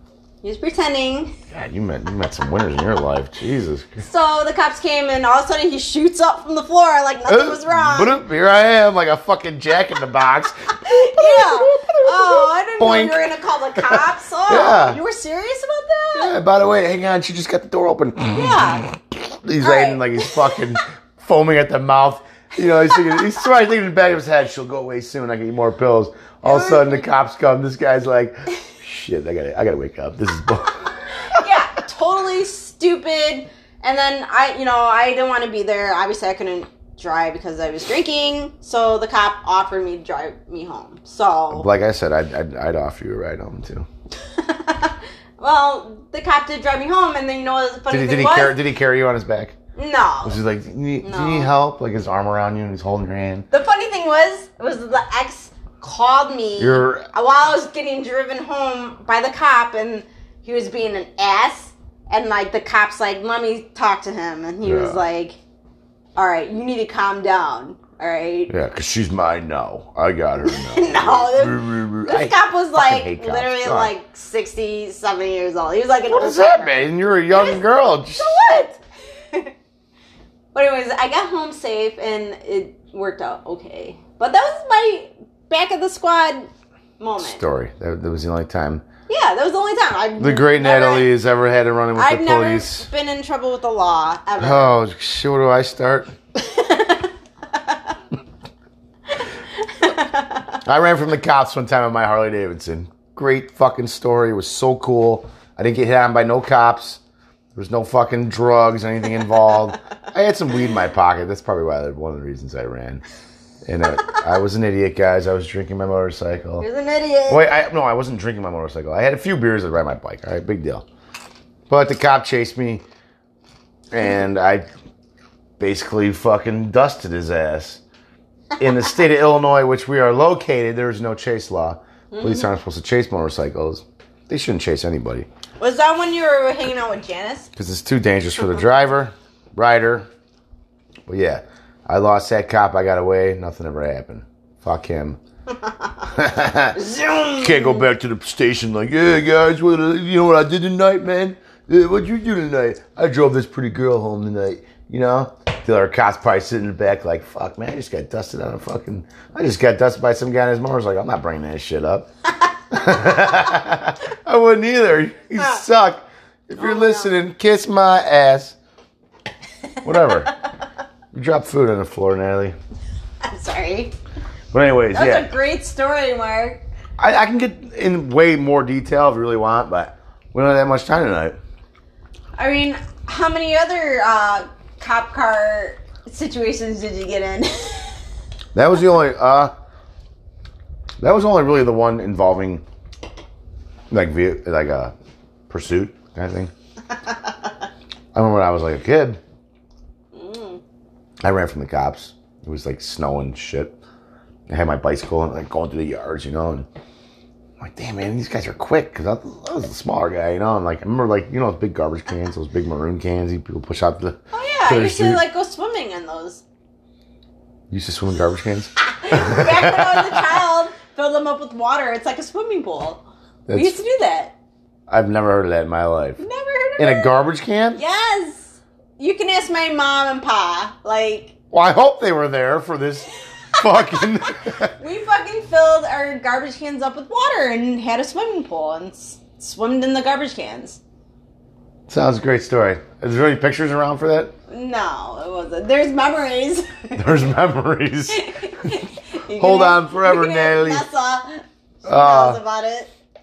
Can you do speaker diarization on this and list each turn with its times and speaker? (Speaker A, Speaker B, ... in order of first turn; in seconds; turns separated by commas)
Speaker A: 0.4-1.4, Speaker B: 1.5-4.0, Speaker A: 4.0-8.2, Speaker B: 7.3-15.0, Speaker A: 10.8-16.3, Speaker B: 16.1-31.4, Speaker A: 18.3-18.8, Speaker A: 19.6-20.7, Speaker A: 22.9-23.2, Speaker A: 26.4-27.1, Speaker A: 31.3-41.7, Speaker B: 41.5-43.9, Speaker A: 44.2-48.6, Speaker B: 47.9-49.5, Speaker A: 49.7-50.4, Speaker B: 50.2-53.5, Speaker A: 51.0-51.5, Speaker A: 53.5-65.4, Speaker B: 56.6-57.1, Speaker B: 64.6-65.0, Speaker A: 66.2-68.5, Speaker B: 68.5-73.9, Speaker A: 70.5-77.6, Speaker B: 76.1-78.3, Speaker A: 78.1-78.8, Speaker A: 80.5-87.4, Speaker B: 87.2-88.8, Speaker A: 89.1-91.1, Speaker B: 90.2-92.9, Speaker A: 91.9-94.8, Speaker B: 94.4-96.1, Speaker A: 96.4-97.9, Speaker A: 99.2-100.6, Speaker B: 100.6-107.0, Speaker B: 107.5-113.0, Speaker B: 113.6-116.7, Speaker A: 116.6-117.5, Speaker B: 117.3-120.8, Speaker B: 121.7-122.8, Speaker B: 123.9-124.6, Speaker B: 125.6-127.8, Speaker B: 128.6-135.3, Speaker A: 132.1-132.5, Speaker A: 135.6-137.5, Speaker B: 137.6-140.1, Speaker B: 141.1-145.2, Speaker B: 146.1-146.8, Speaker A: 146.7-147.8, Speaker B: 147.4-162.1, Speaker B: 162.7-168.6, Speaker A: 166.6-167.1, Speaker B: 169.8-170.3, Speaker B: 171.1-172.6, Speaker A: 173.2-173.9, Speaker B: 174.5-175.3, Speaker A: 174.9-176.6, Speaker B: 177.0-181.4, Speaker A: 182.3-188.0, Speaker B: 188.5-189.5, Speaker B: 191.0-192.6, Speaker B: 193.9-194.9, Speaker B: 195.5-196.5, Speaker B: 198.1-199.2, Speaker A: 200.1-200.6, Speaker B: 201.2-203.8, Speaker B: 204.5-206.7, Speaker B: 207.6-215.2, Speaker A: 214.3-216.4, Speaker B: 217.7-220.4, Speaker A: 218.8-224.3, Speaker B: 223.5-223.8, Speaker B: 224.9-226.2, Speaker A: 226.2-227.2, Speaker B: 226.8-227.8, Speaker A: 227.7-231.3, Speaker B: 231.5-234.7, Speaker A: 233.5-234.0, Speaker A: 234.8-240.8, Speaker B: 241.9-244.3, Speaker A: 244.5-247.2, Speaker B: 246.9-248.8, Speaker A: 248.1-252.9, Speaker B: 249.3-250.8, Speaker B: 251.8-252.4